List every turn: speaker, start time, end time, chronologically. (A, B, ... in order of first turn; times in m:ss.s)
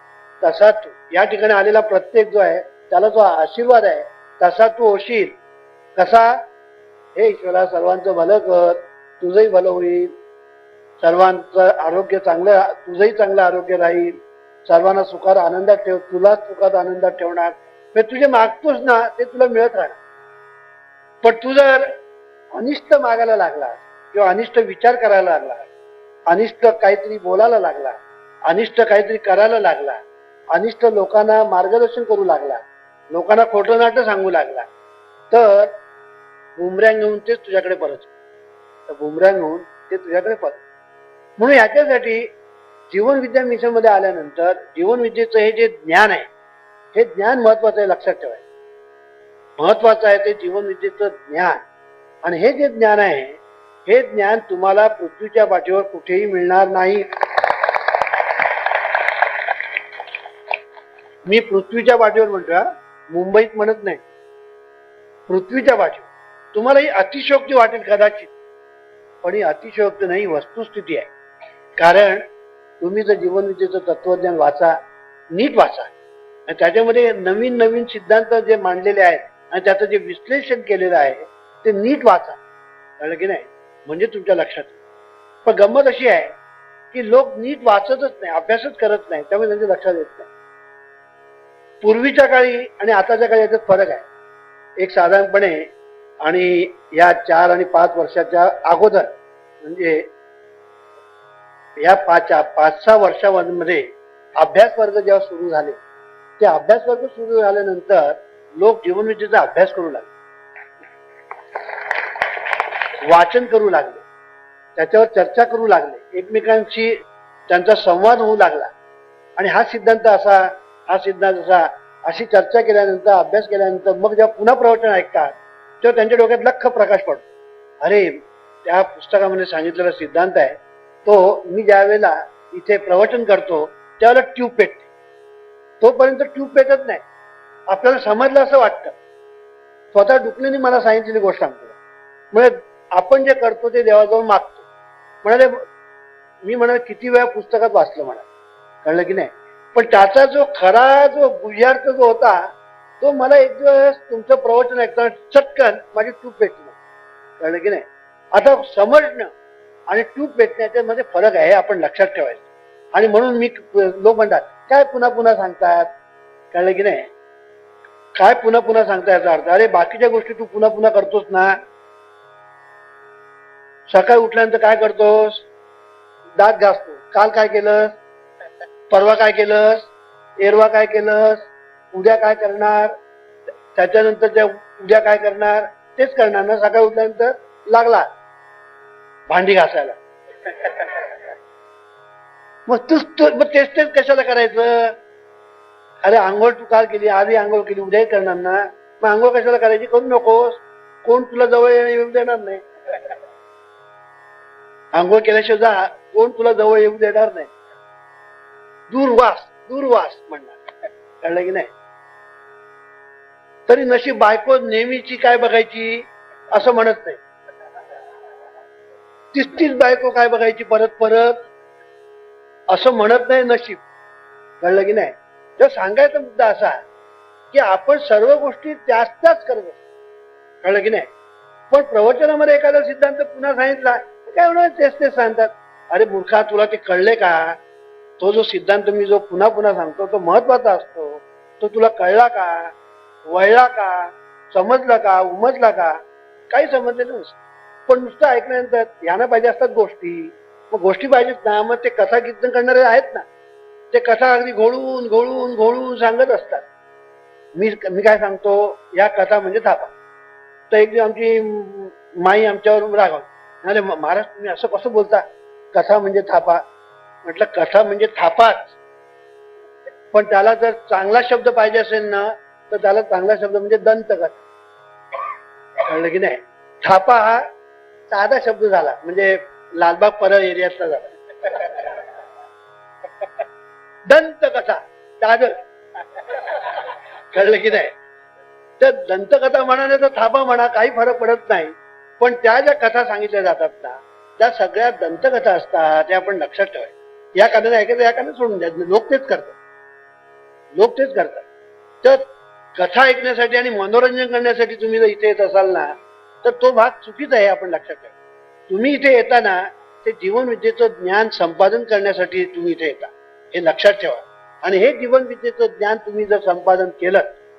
0:00.4-0:05.4 A
0:06.0-0:06.4 A
0:07.1-0:10.1 A
0:11.0-0:20.0 A
0:21.2-0:21.9 A
0:22.5-0:25.7 A
0:26.3-0:30.0 A
0:30.5-0:34.7 A
0:35.3-0:35.7 A
0:36.6-0:38.1 A
0:38.9-0:40.6 A
0:41.4-0:42.3 A
0:42.9-0:46.2 A
0:46.9-0:48.4 A
0:49.6-0:51.6 A
0:52.2-0:57.0 A
1:01.2-1:04.0 A
1:05.3-1:08.3 A
1:09.2-1:11.1 A
1:11.8-1:12.2 A
1:12.8-1:14.8 A
1:15.3-1:15.9 A
1:16.5-1:22.4 A
1:23.0-1:24.8 A
1:25.4-1:26.3 A
1:26.9-1:30.3 A
1:31.8-1:34.0 A
1:34.8-1:35.7 A
1:36.2-1:40.1 A
1:41.8-1:43.8 A
1:44.4-1:45.8 A
1:46.4-1:50.1 A
1:53.0-1:54.0 A
1:54.8-1:57.0 A
1:57.5-1:58.7 A
1:59.4-2:07.3 A
2:07.8-2:14.9 A
2:15.8-2:17.0 A
2:17.7-2:19.0 A
2:19.9-2:21.8 A
2:22.3-2:24.6 A
2:25.2-2:25.6 A
2:26.4-2:28.2 A
2:28.8-2:32.5 A
2:33.0-2:36.7 A
2:37.4-2:39.3 A
2:39.9-2:45.9 A
2:46.5-2:47.0 A
2:48.2-2:51.6 A
2:53.9-2:55.4 A
2:56.4-2:58.0 A
2:58.9-3:03.0 A
3:03.7-3:08.1 A
3:09.3-3:11.2 A
3:12.7-3:15.0 A
3:16.0-3:22.6 A
3:24.9-3:27.5 A
3:28.9-3:30.6 A
3:31.2-3:31.7 A
3:33.7-3:37.2 A
3:39.3-3:41.4 A
3:42.7-3:43.8 A
3:44.6-3:46.8 A
3:47.5-3:49.8 A
3:50.6-3:51.1 A
3:51.7-3:57.6 A
3:58.2-4:02.7 A
4:03.2-4:06.0 A
4:06.5-4:07.4 A
4:07.9-4:13.2 A
4:13.9-4:16.6 A
4:17.5-4:19.9 A
4:20.7-4:26.6 A
4:27.2-4:28.7 A
4:30.1-4:34.4 A
4:35.8-4:37.4 A
4:38.1-4:42.0 A
4:44.1-4:45.6 A
4:46.1-4:47.9 A
4:48.8-4:59.6 A
5:00.8-5:01.4 A
5:02.8-5:08.1 A
5:08.7-5:17.4 A